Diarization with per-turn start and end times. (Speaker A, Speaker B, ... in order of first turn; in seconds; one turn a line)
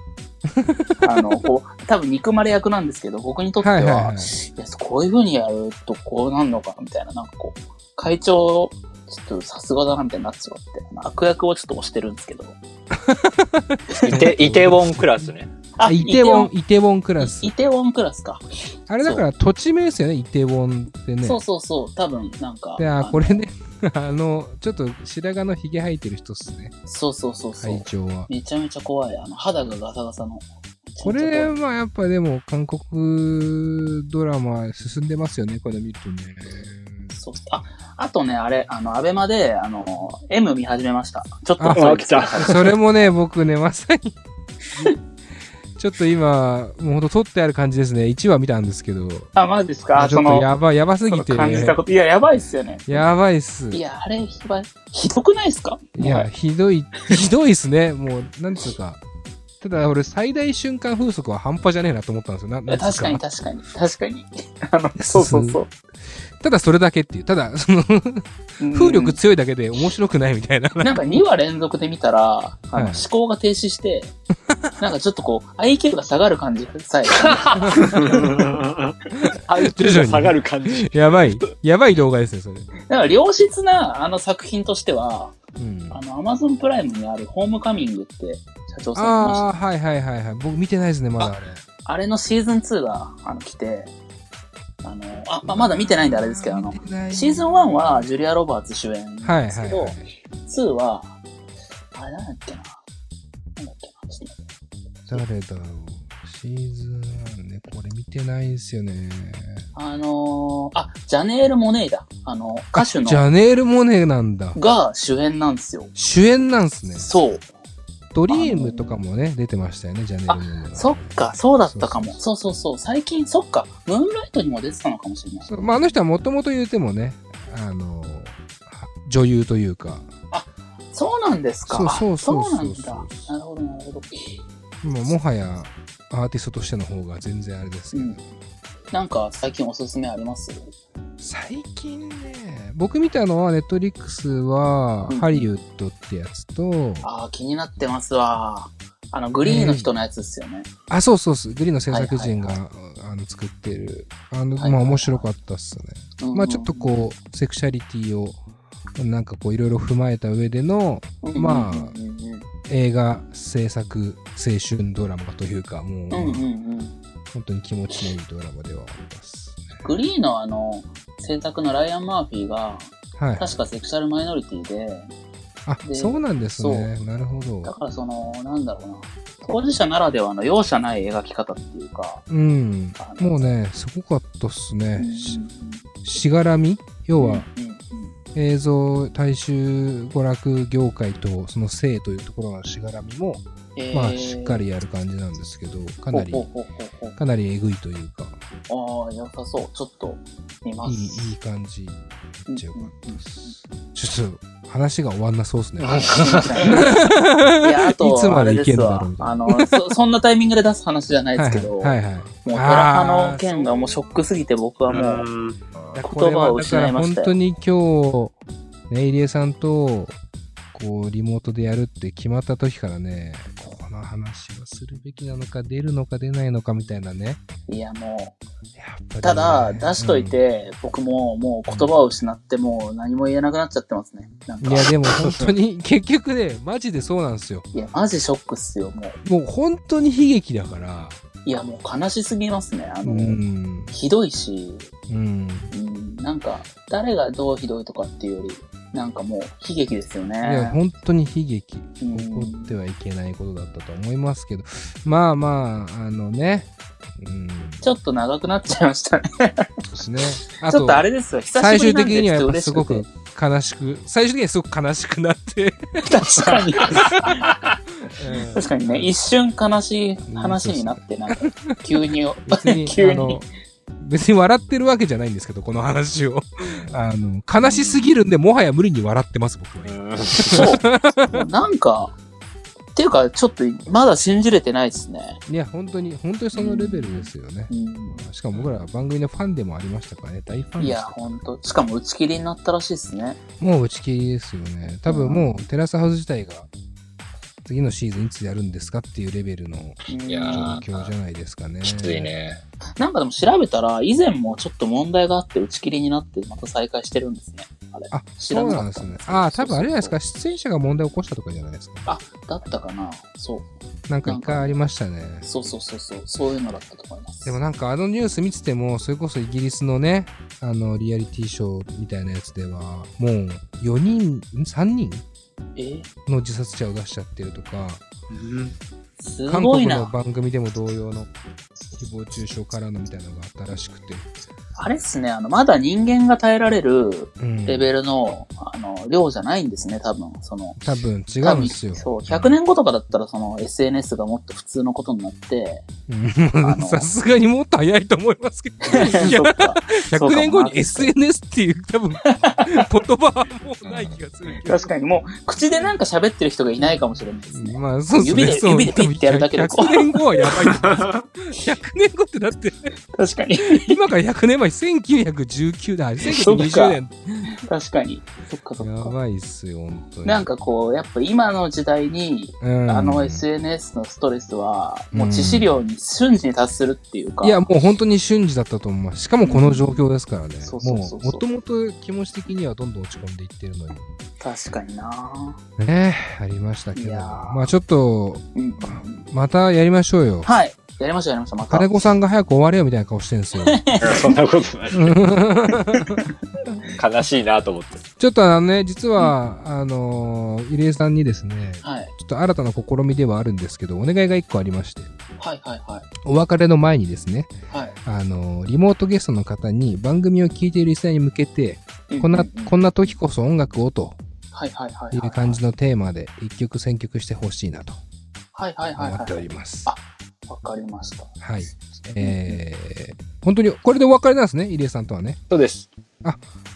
Speaker A: 0.6-1.4
Speaker B: 1.0-12.6
Speaker A: 3.6-4.3
Speaker A: 12.9-15.3
Speaker B: 13.9-14.3
Speaker C: 14.0-15.5
Speaker B: 15.8-16.5
Speaker A: 15.8-17.5
Speaker B: 17.2-18.4
Speaker A: 18.9-21.4
Speaker B: 21.2-23.4
Speaker A: 22.8-26.7
Speaker B: 26.9-31.5
Speaker A: 27.6-28.3
Speaker A: 31.0-37.1
Speaker B: 37.1-42.6
Speaker A: 41.6-44.2
Speaker C: 41.7-42.7
Speaker A: 45.8-49.3
Speaker B: 49.4-50.5
Speaker A: 50.0-51.8
Speaker B: 51.1-53.0
Speaker A: 52.9-53.8
Speaker B: 53.7-56.3
Speaker A: 56.0-59.0
Speaker A: 59.6-63.2
Speaker B: 62.7-65.7
Speaker A: 65.0-71.2
Speaker B: 68.6-69.2
Speaker B: 70.8-74.1
Speaker A: 72.7-73.0
Speaker A: 74.5-74.7
Speaker B: 74.8-78.3
Speaker C: 77.2-81.5
Speaker A: 77.6-78.2
Speaker A: 79.2-82.7
Speaker B: 82.9-85.4
Speaker A: 85.6-86.0
Speaker B: 85.9-89.5
Speaker A: 89.0-91.6
Speaker B: 91.2-93.9
Speaker B: 94.8-101.2
Speaker A: 95.4-98.1
Speaker A: 99.2-100.1
Speaker B: 101.9-102.8
Speaker B: 103.6-104.4
Speaker A: 105.1-109.7
Speaker B: 109.7-113.3
Speaker A: 112.8-114.6
Speaker B: 114.6-115.9
Speaker A: 116.0-117.1
Speaker B: 117.0-117.5
Speaker A: 118.1-122.2
Speaker B: 118.3-119.0
Speaker B: 120.3-125.5
Speaker A: 125.4-130.1
Speaker B: 130.3-134.4
Speaker A: 131.7-133.3
Speaker A: 134.8-138.2
Speaker B: 137.9-138.2
Speaker B: 138.9-140.7
Speaker A: 141.2-147.1
Speaker B: 145.1-145.5
Speaker B: 147.0-150.7
Speaker A: 149.5-149.9
Speaker A: 150.9-158.4
Speaker B: 151.9-152.6
Speaker B: 154.6-155.3
Speaker B: 156.2-156.9
Speaker A: 159.0-162.0
Speaker B: 161.2-162.4
Speaker A: 162.7-166.5
Speaker B: 166.1-166.9
Speaker A: 167.3-169.9
Speaker B: 169.8-175.1
Speaker A: 173.2-173.6
Speaker A: 175.7-177.7
Speaker B: 175.8-176.9
Speaker B: 177.6-182.3
Speaker A: 182.3-185.4
Speaker B: 183.0-183.5
Speaker B: 185.0-185.9
Speaker A: 186.0-187.5
Speaker B: 187.2-188.1
Speaker A: 188.3-196.5
Speaker B: 193.8-194.6
Speaker B: 196.1-197.2
Speaker A: 197.2-198.4
Speaker B: 198.7-201.3
Speaker A: 200.8-209.9
Speaker B: 202.5-203.5
Speaker C: 205.8-206.7
Speaker B: 205.8-207.0
Speaker B: 207.6-215.3
Speaker A: 211.4-213.8
Speaker C: 214.9-215.6
Speaker A: 215.9-218.3
Speaker B: 216.0-217.3
Speaker A: 218.9-220.2
Speaker A: 220.7-227.4
Speaker B: 227.7-228.4
Speaker A: 228.8-230.4
Speaker B: 229.2-235.0
Speaker A: 234.6-237.7
Speaker B: 237.7-239.2
Speaker A: 239.2-241.2
Speaker B: 241.4-243.4
Speaker A: 243.0-243.9
Speaker B: 243.9-244.9
Speaker A: 245.1-245.7
Speaker B: 245.7-250.8
Speaker A: 250.4-257.9
Speaker B: 252.0-252.7
Speaker B: 257.8-259.9
Speaker A: 259.9-267.5
Speaker B: 260.6-263.1
Speaker B: 266.0-267.5
Speaker A: 268.1-269.1
Speaker B: 268.4-273.4
Speaker A: 270.2-273.5
Speaker A: 274.0-281.4
Speaker C: 276.6-277.0
Speaker C: 279.9-280.8
Speaker B: 280.5-282.1
Speaker B: 283.0-285.4
Speaker A: 285.5-291.4
Speaker B: 286.5-288.2
Speaker B: 290.8-293.4
Speaker A: 293.6-296.7
Speaker B: 295.1-295.5
Speaker A: 297.6-302.3
Speaker B: 300.1-300.8
Speaker C: 300.3-301.1
Speaker C: 301.8-302.6
Speaker B: 303.0-310.2
Speaker A: 308.1-312.1
Speaker B: 312.1-313.7
Speaker A: 314.1-315.5
Speaker B: 314.2-314.8
Speaker B: 315.4-317.6
Speaker A: 317.4-325.2
Speaker B: 325.8-326.1
Speaker A: 326.3-328.0
Speaker C: 328.4-328.7
Speaker B: 329.2-330.1
Speaker A: 329.5-331.3
Speaker A: 332.0-334.3
Speaker B: 334.8-340.8
Speaker A: 337.4-337.9
Speaker A: 340.8-342.6
Speaker B: 341.4-345.9
Speaker A: 346.1-354.9
Speaker B: 346.6-347.1
Speaker B: 348.8-351.1
Speaker B: 352.3-352.9
Speaker C: 353.8-354.2
Speaker B: 354.7-360.6
Speaker A: 357.5-362.9
Speaker B: 363.1-364.0
Speaker A: 363.8-367.6
Speaker B: 366.2-369.1
Speaker A: 368.8-370.5
Speaker B: 370.2-377.7
Speaker A: 372.6-373.4
Speaker A: 375.1-375.8
Speaker A: 377.4-384.1
Speaker B: 379.4-380.0
Speaker B: 380.6-381.4
Speaker B: 384.4-385.6
Speaker A: 385.8-390.5
Speaker B: 386.9-387.7
Speaker B: 388.6-389.2
Speaker B: 390.4-392.0
Speaker A: 391.7-393.8
Speaker B: 393.6-394.4
Speaker C: 394.0-395.2
Speaker A: 394.9-396.2
Speaker B: 395.8-396.3
Speaker C: 396.9-398.1
Speaker A: 398.2-405.1
Speaker B: 401.8-402.1
Speaker B: 405.4-406.1
Speaker A: 406.2-407.5
Speaker B: 407.7-408.0
Speaker A: 408.1-414.2
Speaker B: 412.1-412.8
Speaker B: 414.5-415.6
Speaker A: 415.1-418.0
Speaker B: 418.5-421.4
Speaker A: 419.0-419.9
Speaker A: 421.4-425.4
Speaker B: 422.2-422.6
Speaker C: 425.5-425.9